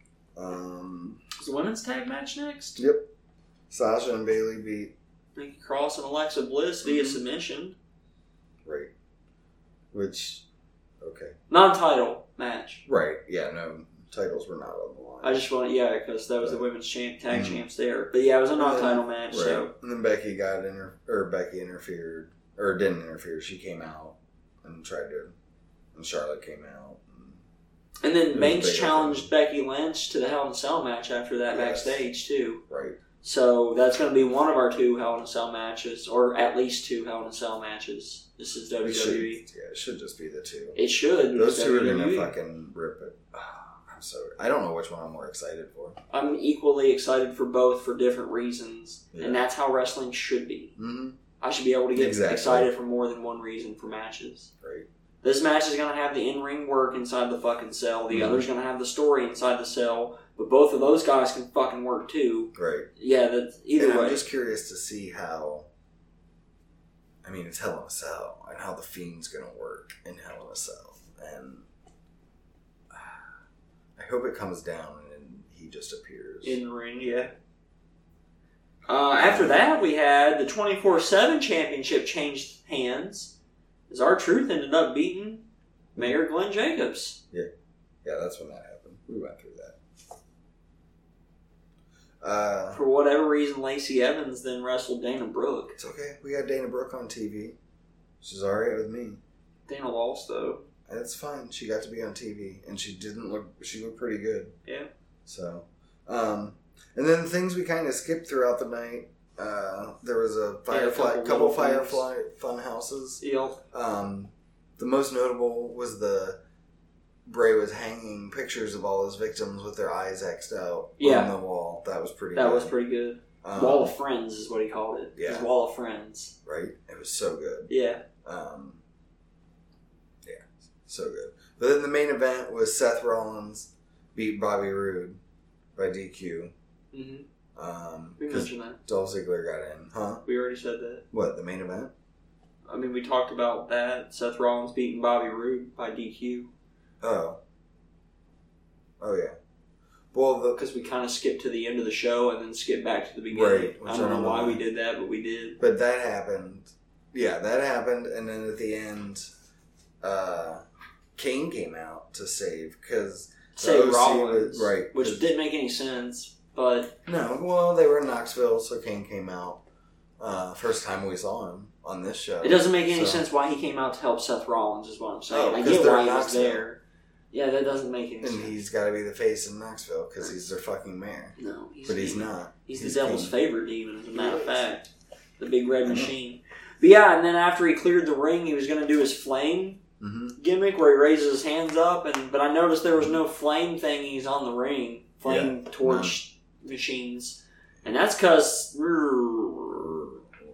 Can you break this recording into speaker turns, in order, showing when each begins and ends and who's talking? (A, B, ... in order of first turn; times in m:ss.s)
0:00.4-0:01.2 A
0:01.4-0:02.8 B
0:02.8-0:03.1 A
0:03.7-0:04.9 A
0:05.4-0:07.8 B
0:06.8-0:07.2 A
0:08.6-0:08.9 A
0:09.9-0:10.5 A
0:11.0-0:11.4 A
0:11.5-0:12.8 B
0:12.9-0:15.4 A
0:15.2-0:19.7 B
0:17.3-0:17.6 A
0:18.6-0:25.3 A
0:26.0-0:27.4 A
0:28.0-0:32.6 B
0:28.3-0:29.3 A
0:31.5-0:32.0 A
0:32.7-0:33.0 A
0:33.2-0:39.4 B
0:38.8-0:40.8 A
0:40.8-0:42.3 B
0:41.3-0:46.0 A
0:46.1-0:50.8 B
0:49.1-0:49.4 A
0:50.8-0:51.2 A
0:51.4-0:54.5 B
0:52.0-0:52.7 A
0:54.6-0:54.9 A
0:55.2-1:04.2 B
0:58.1-0:58.5 A
1:02.6-1:02.9 A
1:03.8-1:05.7 A
1:07.2-1:11.7 A
1:12.9-1:13.2 A
1:14.0-1:16.6 A
1:16.4-1:17.3 B
1:18.9-1:23.3 B
1:19.2-1:19.7 A
1:23.9-1:25.5 B
1:26.0-1:27.2 B
1:28.0-1:29.8 A
1:32.2-1:32.8 A
1:32.7-1:35.8 B
1:35.8-1:37.6 A
1:38.2-1:39.2 A
1:39.7-1:40.6 B
1:40.9-1:44.6 A
1:45.3-1:56.4 A
1:50.7-1:52.1 B
1:53.2-1:53.6 B
1:57.3-2:02.7 A
2:01.0-2:01.3 B
2:02.3-2:06.3 B
2:03.4-2:03.9 A
2:05.2-2:05.5 A
2:06.4-2:08.8 A
2:07.7-2:08.0 B
2:10.2-2:15.2 A
2:15.8-2:16.5 A
2:16.9-2:17.3 B
2:17.6-2:20.2 A
2:18.2-2:18.8 B
2:20.2-2:21.0 B
2:21.1-2:21.9 A
2:22.7-2:26.5 B
2:27.0-2:27.4 A
2:29.0-2:29.4 A
2:30.1-2:30.6 A
2:30.6-2:35.6 B
2:33.3-2:34.6 A
2:35.6-2:39.2 A
2:40.0-2:40.6 A
2:41.2-2:45.3 A
2:43.6-2:47.0 B
2:47.1-2:49.6 A
2:50.2-2:53.2 A
2:52.4-2:56.8 B
2:55.3-2:56.6 A
2:57.3-2:58.6 B
2:58.2-3:03.3 A
3:01.4-3:04.9 B
3:04.1-3:04.6 A
3:05.4-3:09.8 B
3:05.8-3:06.1 A
3:10.0-3:10.4 A
3:10.4-3:20.1 B
3:15.2-3:16.2 A